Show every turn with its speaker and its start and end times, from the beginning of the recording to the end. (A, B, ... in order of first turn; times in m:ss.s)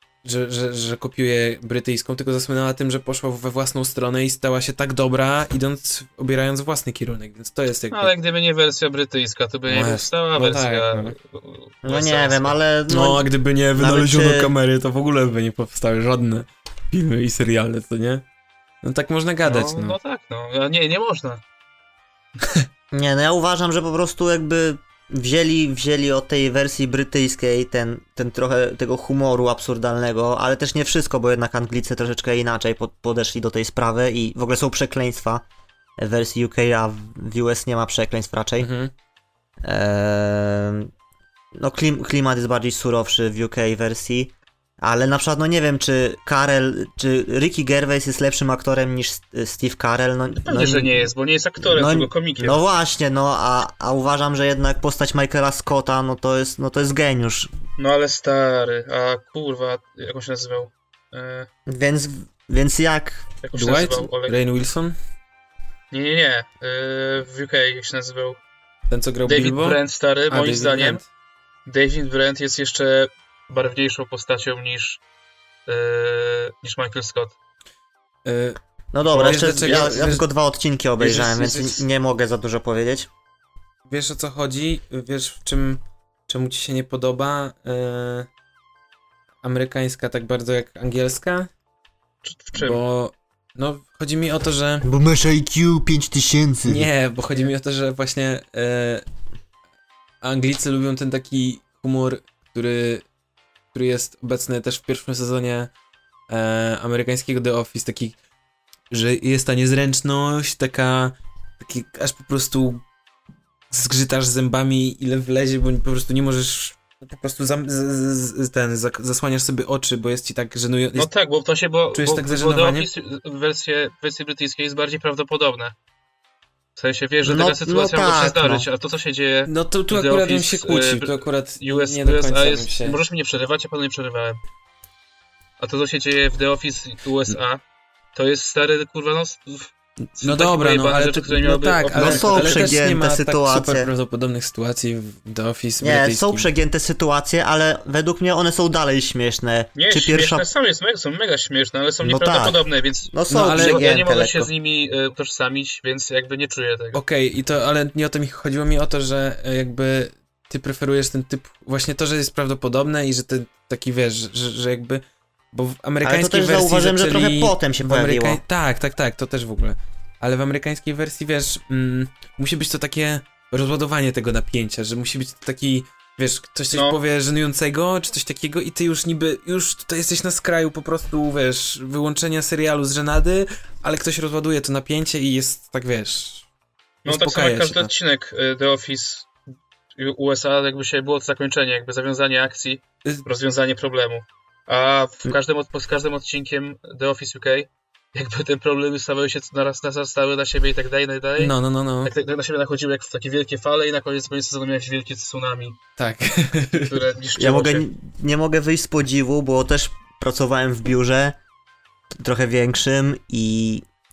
0:00.2-0:08.1 A
0:07.9-0:12.6 B
0:09.7-0:11.1 A
0:11.8-0:14.5 C
0:12.9-0:18.2 A
0:18.8-0:20.0 A
0:19.4-0:21.4 B
0:22.9-0:35.4 C
0:36.0-0:38.7 C
0:38.6-0:38.9 A
0:39.6-0:40.9 C
0:41.6-0:57.5 C
0:50.4-0:52.7 B
0:57.8-1:01.5 B
1:01.7-1:03.2 C
1:03.4-1:04.4 B
1:03.5-1:05.0 A
1:05.9-1:08.4 B
1:08.9-1:11.0 A
1:09.2-1:11.0 B
1:11.6-1:15.0 B
1:15.7-1:17.3 B
1:18.2-1:20.2 A
1:18.9-1:23.1 C
1:19.3-1:20.0 B
1:21.0-1:21.8 A
1:23.8-1:28.3 A
1:29.4-1:31.5 A
1:32.2-1:32.8 B
1:32.5-1:34.8 A
1:34.8-1:36.9 C
1:36.7-1:39.0 A
1:40.2-1:43.0 A
1:43.7-1:45.7 A
1:46.3-1:48.2 A
1:48.9-1:52.8 A
1:53.7-2:01.1 A
2:01.0-2:05.7 B
2:01.9-2:02.9 A
2:06.8-2:14.4 B
2:07.2-2:08.6 C
2:09.5-2:13.0 A
2:15.6-2:17.6 B
2:18.1-2:22.7 B
2:20.1-2:26.5 A
2:22.0-2:23.9 C
2:25.8-2:30.4 C
2:29.7-2:37.0 B
2:32.0-2:34.5 C
2:33.3-2:33.8 A
2:36.9-3:06.5 A
2:46.0-2:48.4 C
2:56.7-2:57.0 B
3:07.0-3:07.9 A
3:07.0-3:09.3 B
3:10.0-3:25.8 B
3:21.4-3:22.1 A
3:26.0-3:27.0 A
3:26.9-3:27.8 B
3:27.4-3:31.4 C
3:32.1-3:33.8 C